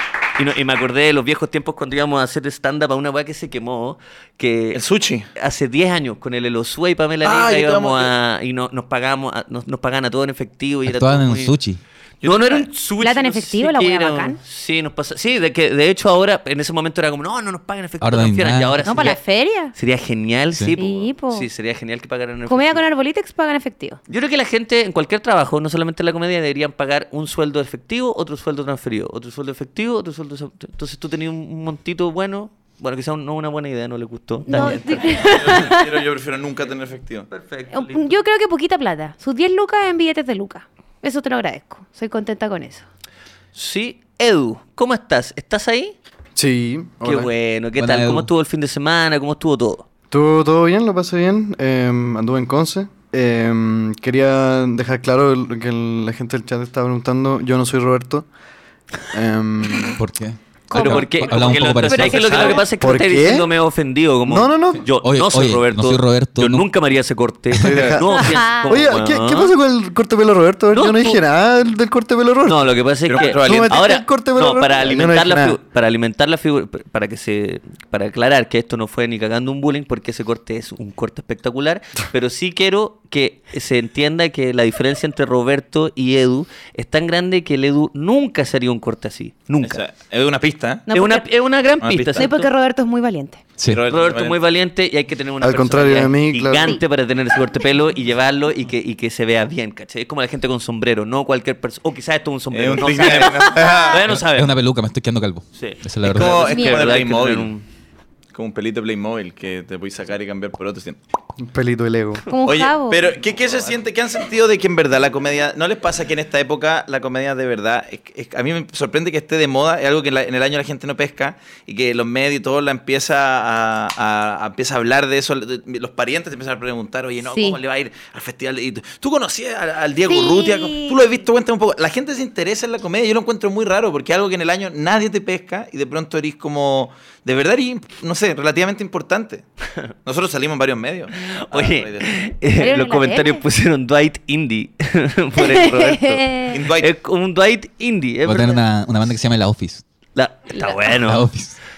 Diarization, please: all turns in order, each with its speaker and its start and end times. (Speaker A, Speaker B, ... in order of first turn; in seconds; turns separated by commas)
Speaker A: 0.3-4.8, Speaker B: 4.7-5.3, Speaker A: 5.3-11.5, Speaker B: 7.2-8.1, Speaker C: 10.8-11.8, Speaker B: 12.2-12.7, Speaker A: 12.2-19.2, Speaker D: 13.0-14.4, Speaker C: 18.0-19.1, Speaker D: 18.8-19.7, Speaker A: 19.7-22.8, Speaker D: 20.7-21.5, Speaker D: 22.5-24.0, Speaker A: 24.1-35.7, Speaker D: 34.5-36.0, Speaker B: 34.5-37.3, Speaker A: 37.3-38.2, Speaker D: 37.7-42.9, Speaker A: 43.5-46.0, Speaker E: 46.3-47.3, Speaker A: 47.0-49.9, Speaker C: 47.8-48.3, Speaker E: 50.1-58.3, Speaker E: 59.1-60.0, Speaker C: 60.0-62.5, Speaker D: 60.7-62.6, Speaker A: 60.7-69.5, Speaker B: 62.1-62.6, Speaker E: 62.8-63.5, Speaker E: 64.3-64.8, Speaker C: 65.0-66.7, Speaker E: 67.6-75.6, Speaker D: 68.2-68.7, Speaker A: 70.7-71.2, Speaker A: 72.4-89.8, Speaker B: 73.1-73.9, Speaker B: 89.6-90.9, Speaker D: 90.9-91.2, Speaker A: 90.9-92.3, Speaker B: 91.8-92.5, Speaker D: 92.2-93.5, Speaker B: 93.6-94.4, Speaker A: 93.9-104.6, Speaker E: 95.4-96.8, Speaker B: 102.5-104.1, Speaker D: 103.0-103.8, Speaker C: 104.1-106.4, Speaker A: 105.5-107.7, Speaker B: 106.0-107.5, Speaker D: 106.3-107.0, Speaker B: 108.3-111.0, Speaker E: 111.4-112.2, Speaker D: 112.3-113.0, Speaker B: 112.4-139.5, Speaker D: 127.2-127.6, Speaker D: 130.1-131.0, Speaker B: 140.0-142.1, Speaker A: 141.2-148.6, Speaker D: 142.6-143.4, Speaker D: 145.4-146.6, Speaker B: 146.5-146.9, Speaker C: 148.2-149.8, Speaker A: 150.1-151.3, Speaker D: 150.5-150.9, Speaker C: 150.9-151.6